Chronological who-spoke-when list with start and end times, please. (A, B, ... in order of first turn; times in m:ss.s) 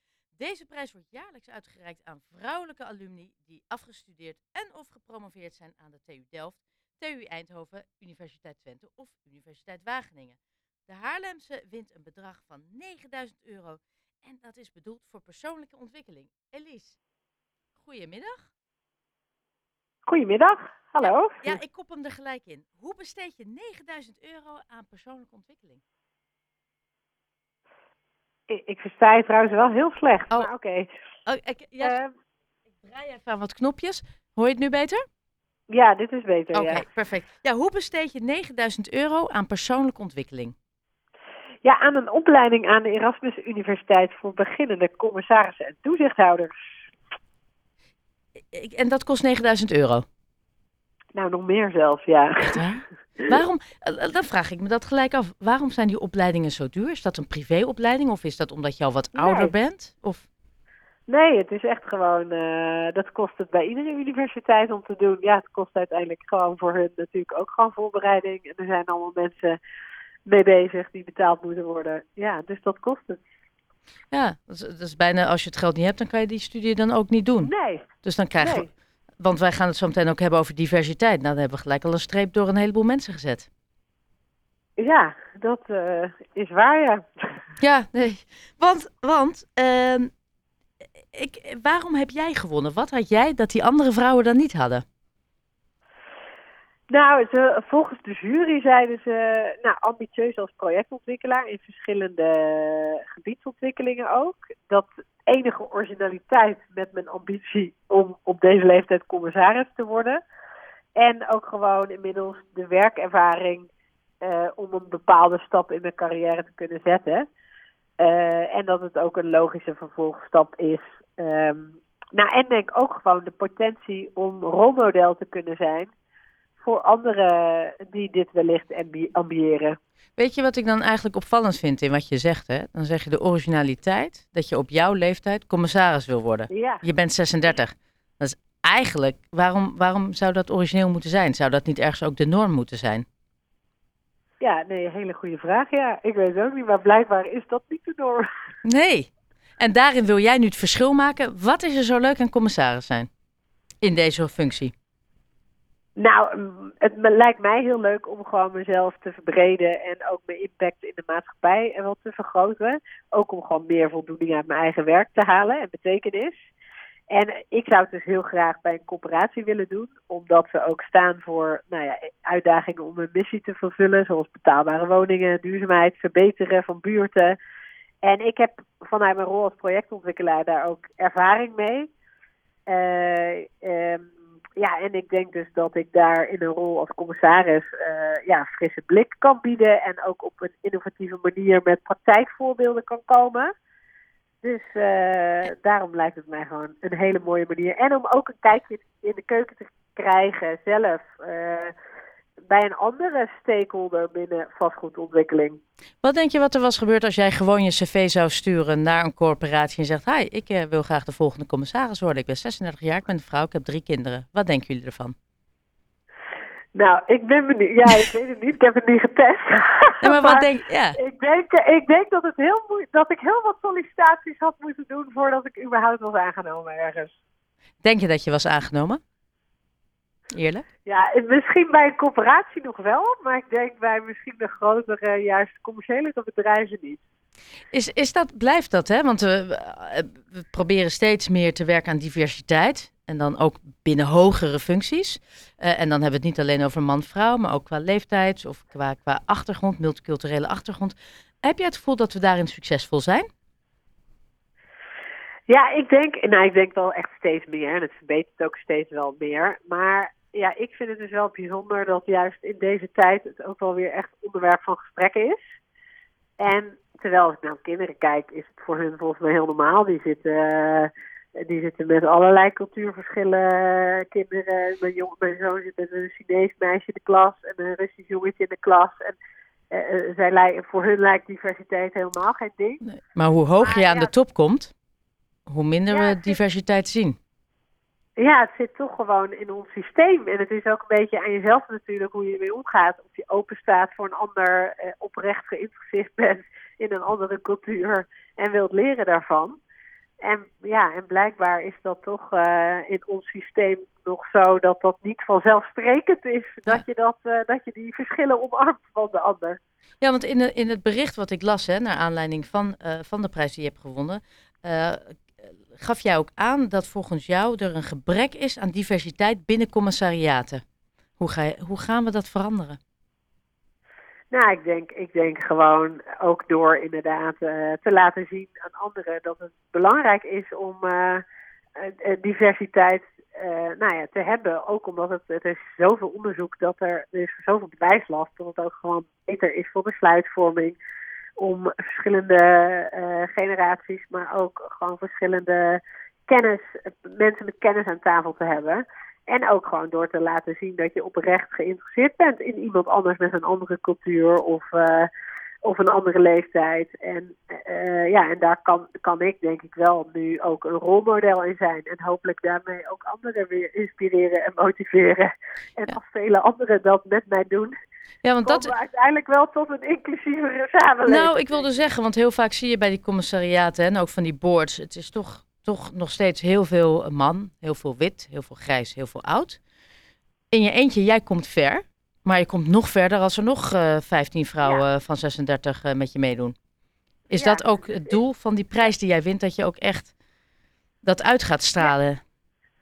0:00.4-0:17.0 A
0:17.8-0:18.5 A
0:20.1-0:21.6 B
0:21.0-0:25.8 A
0:28.5-0:30.9 B
0:31.2-0:32.0 A
0:31.8-0:32.1 B
0:32.8-0:35.0 A
0:35.7-0:36.8 B
0:36.5-0:40.6 A
0:41.6-0:46.8 B
0:48.5-0:50.0 A
0:51.1-0:52.6 B
0:52.5-1:00.3 A
0:59.2-0:59.5 B
1:01.1-1:09.6 B
1:10.3-1:13.2 B
1:14.1-1:18.7 A
1:17.4-1:17.9 B
1:18.4-1:18.7 B
1:19.2-1:23.5 A
1:24.8-1:27.1 B
1:27.6-1:30.1 A
1:31.1-1:34.8 A
1:36.9-1:50.2 B
1:51.0-1:53.7 B
1:54.2-1:57.3 B
1:58.0-2:05.9 B
2:06.6-2:09.8 B
2:10.2-2:23.0 A
2:16.5-2:16.8 B
2:24.4-2:28.3 B
2:28.6-2:33.1 A
2:33.8-2:34.7 A
2:36.0-2:46.5 B
2:47.1-2:57.4 B
2:58.0-3:01.9 B
3:02.7-3:13.5 B
3:14.4-3:21.7 B
3:22.5-3:25.6 B
3:26.0-3:35.2 A
3:36.8-3:47.2 B
3:40.0-3:41.0 A
3:47.8-3:49.0 A
3:50.3-3:50.6 A
3:50.8-3:57.0 B
3:57.7-4:13.3 A
4:15.5-4:25.6 B
4:26.4-4:39.2 B
4:39.7-4:42.8 B
4:42.9-4:44.7 A
4:43.6-4:44.1 B
4:45.5-4:47.2 A
4:45.9-4:46.4 B
4:48.2-4:59.6 B
5:00.2-5:09.6 B
5:10.0-5:20.6 A
5:21.2-5:22.8 A
5:24.3-5:31.2 B
5:31.8-5:40.8 B
5:41.4-5:55.1 B
5:55.6-6:07.7 B
6:08.2-6:08.7 A
6:08.4-6:11.7 B
6:11.0-6:19.6 A
6:20.5-6:26.5 A
6:27.3-6:30.1 A
6:27.4-6:28.2 B
6:31.0-6:32.2 A